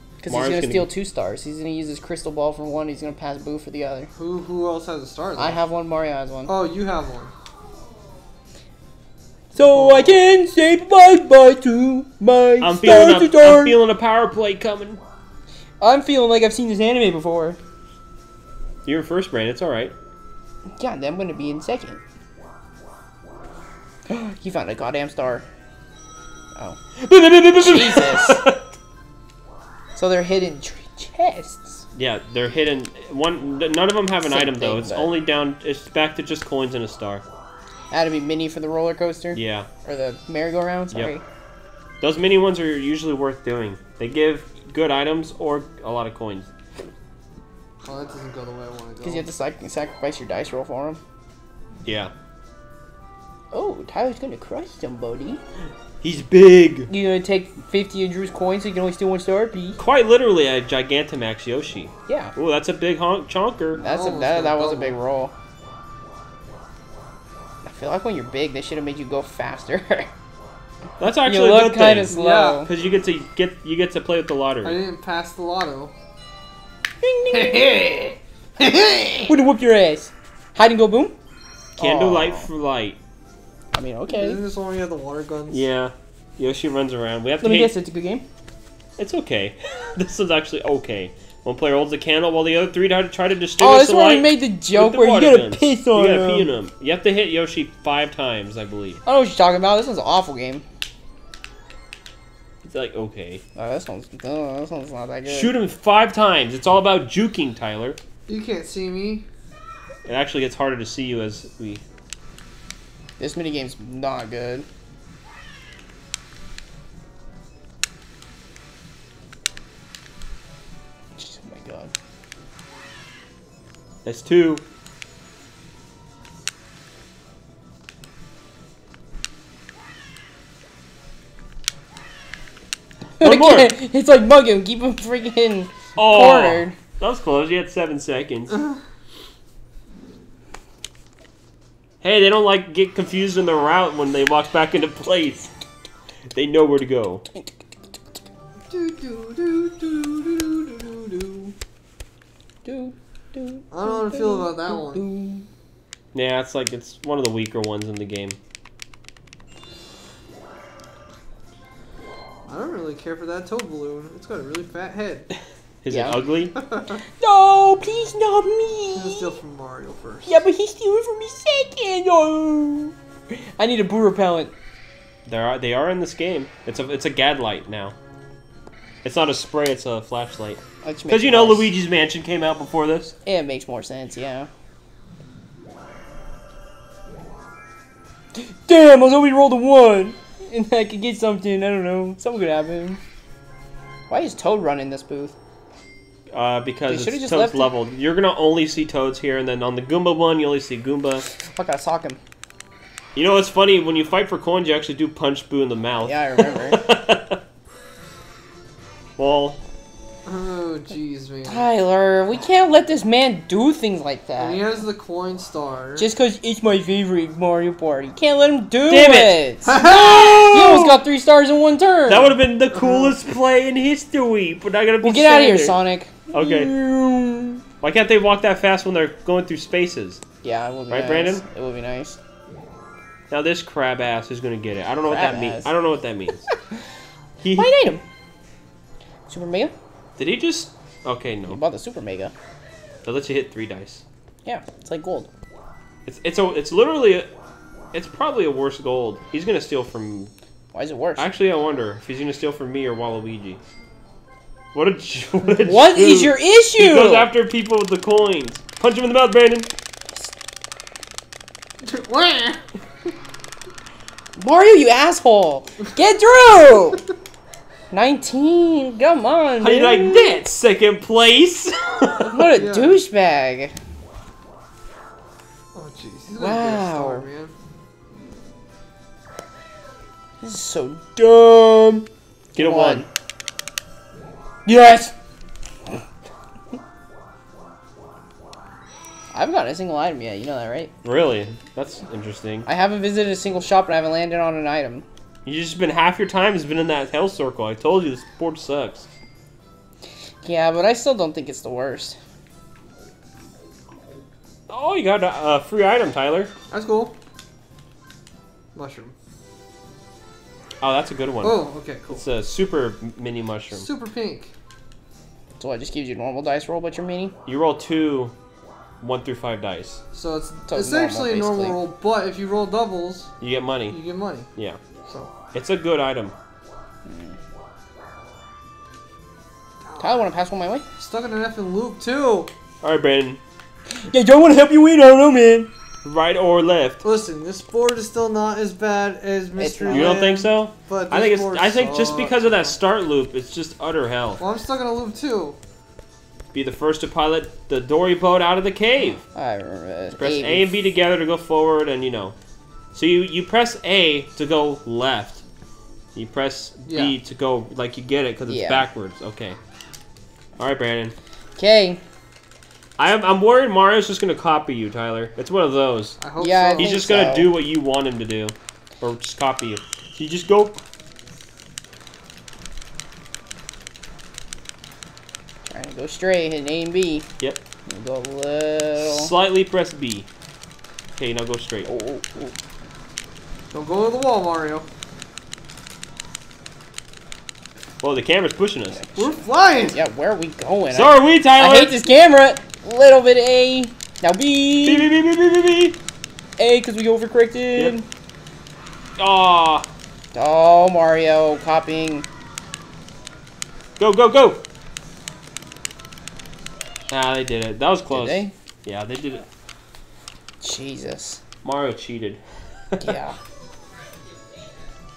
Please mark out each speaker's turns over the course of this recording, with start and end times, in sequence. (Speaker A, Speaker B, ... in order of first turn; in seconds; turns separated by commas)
Speaker A: 0.2-4.1, Speaker B: 0.3-0.9, Speaker C: 4.2-5.6, Speaker A: 5.4-6.6, Speaker C: 6.5-7.3, Speaker A: 9.5-13.8, Speaker C: 9.6-10.1, Speaker B: 12.6-15.0, Speaker A: 15.8-17.6, Speaker B: 18.8-19.9, Speaker A: 20.8-22.0, Speaker A: 24.1-25.4, Speaker B: 26.9-28.7, Speaker A: 27.6-28.4, Speaker A: 29.9-31.8, Speaker B: 31.9-37.2, Speaker A: 34.2-35.1, Speaker A: 37.9-41.2, Speaker B: 39.3-39.7, Speaker B: 42.0-46.5, Speaker C: 47.8-49.2, Speaker A: 49.0-51.0, Speaker B: 51.8-52.1, Speaker A: 53.5-55.4, Speaker B: 56.0-56.9, Speaker A: 56.9-59.8, Speaker B: 59.8-63.8, Speaker A: 62.1-62.3, Speaker A: 63.8-65.3, Speaker C: 63.8-65.0, Speaker A: 67.6-70.1, Speaker B: 71.0-74.8, Speaker A: 71.2-72.7, Speaker C: 72.1-72.7, Speaker C: 74.6-75.9, Speaker A: 77.0-77.8, Speaker C: 77.3-79.3, Speaker A: 79.3-81.2, Speaker A: 81.8-82.5, Speaker B: 81.8-83.0, Speaker A: 83.7-84.4, Speaker C: 84.1-85.6, Speaker B: 85.5-87.7, Speaker A: 87.4-88.2, Speaker B: 89.0-99.0, Speaker A: 93.6-96.5, Speaker A: 99.0-100.6, Speaker B: 102.6-103.4, Speaker A: 103.5-105.5, Speaker B: 105.2-108.0, Speaker C: 108.3-109.2, Speaker B: 110.0-111.8, Speaker A: 113.2-114.7, Speaker A: 121.2-121.9, Speaker B: 124.0-124.6, Speaker A: 133.2-136.8, Speaker B: 133.2-133.7, Speaker B: 135.9-138.6, Speaker B: 142.0-145.5, Speaker B: 146.3-147.2, Speaker C: 148.7-151.5, Speaker A: 152.6-155.4, Speaker C: 153.7-155.0, Speaker B: 156.1-158.4, Speaker C: 162.5-165.3, Speaker B: 165.8-166.5, Speaker A: 165.9-166.2, Speaker C: 166.5-167.0, Speaker A: 167.2-169.3, Speaker C: 168.9-170.4, Speaker A: 170.2-174.5, Speaker B: 175.2-177.9, Speaker B: 179.0-183.1, Speaker A: 180.8-181.7, Speaker A: 183.2-184.5, Speaker A: 188.3-193.0, Speaker A: 194.1-195.3, Speaker B: 196.3-201.2, Speaker A: 196.9-197.7, Speaker A: 201.4-202.2, Speaker B: 203.1-207.4, Speaker A: 206.0-206.8, Speaker B: 209.2-209.6, Speaker C: 210.2-211.7, Speaker A: 211.4-214.6, Speaker C: 214.4-216.1, Speaker A: 216.0-219.8, Speaker B: 218.9-221.0, Speaker C: 219.6-220.6, Speaker A: 220.5-222.3, Speaker B: 222.1-225.8, Speaker C: 222.7-223.1, Speaker A: 225.0-227.6, Speaker B: 226.3-226.7, Speaker B: 227.8-230.2, Speaker A: 230.4-232.2, Speaker B: 230.9-231.4, Speaker B: 233.3-236.4, Speaker A: 235.1-235.7, Speaker B: 237.4-237.9, Speaker A: 237.6-238.0, Speaker A: 239.3-239.7, Speaker B: 240.2-241.6, Speaker A: 241.5-242.3, Speaker B: 243.0-244.0, Speaker A: 244.4-245.3, Speaker B: 246.0-247.3, Speaker B: 247.9-250.3, Speaker A: 250.7-251.3, Speaker B: 251.2-253.6, Speaker B: 254.7-259.7, Speaker A: 255.6-257.3, Speaker C: 261.8-262.6, Speaker A: 264.4-267.0, Speaker A: 267.9-270.4, Speaker B: 269.6-272.4, Speaker C: 272.2-273.0, Speaker A: 272.3-273.7, Speaker C: 275.7-277.5, Speaker A: 276.3-277.2, Speaker A: 280.4-283.1, Speaker B: 282.5-283.1, Speaker A: 284.6-285.1, Speaker A: 289.3-290.9, Speaker B: 291.0-292.7, Speaker A: 292.6-295.0, Speaker B: 295.4-299.1, Speaker A: 300.4-302.2, Speaker B: 304.7-306.5, Speaker C: 306.7-307.1, Speaker C: 308.7-309.1, Speaker B: 310.8-313.9, Speaker C: 311.4-312.2, Speaker C: 313.7-314.5, Speaker A: 315.6-317.3, Speaker B: 317.4-318.3, Speaker B: 319.0-320.0, Speaker C: 320.1-323.3, Speaker A: 320.7-321.8, Speaker B: 323.4-324.0, Speaker C: 323.9-324.5, Speaker B: 324.5-324.8, Speaker C: 325.1-325.3, Speaker B: 325.5-326.3, Speaker A: 327.1-327.3, Speaker C: 329.8-330.3, Speaker A: 330.0-330.8, Speaker C: 331.0-332.5, Speaker B: 332.8-333.4, Speaker A: 334.1-335.7, Speaker B: 336.0-337.0, Speaker C: 337.0-342.8, Speaker A: 339.6-340.2, Speaker B: 339.9-344.4, Speaker C: 344.4-345.6, Speaker B: 346.5-349.2, Speaker A: 349.3-350.7, Speaker B: 350.2-352.3, Speaker B: 352.9-355.4, Speaker B: 356.1-359.6, Speaker C: 356.9-357.1, Speaker A: 358.5-358.9, Speaker B: 360.6-361.1, Speaker A: 361.6-362.0, Speaker B: 363.0-366.2, Speaker C: 366.2-367.0, Speaker A: 366.4-367.5, Speaker B: 366.8-370.8, Speaker A: 375.7-377.3, Speaker A: 377.9-379.3, Speaker B: 378.9-380.3, Speaker B: 381.1-381.9, Speaker A: 381.9-382.5, Speaker C: 383.7-384.9, Speaker B: 388.0-389.0, Speaker A: 389.0-395.1, Speaker C: 389.1-390.0, Speaker B: 390.9-392.1, Speaker B: 394.8-396.0, Speaker A: 396.6-398.1, Speaker B: 399.2-399.9, Speaker A: 400.3-402.3, Speaker B: 404.0-404.6, Speaker B: 407.1-409.4, Speaker A: 408.1-408.5, Speaker A: 410.6-411.4, Speaker B: 411.6-412.4, Speaker A: 413.0-413.4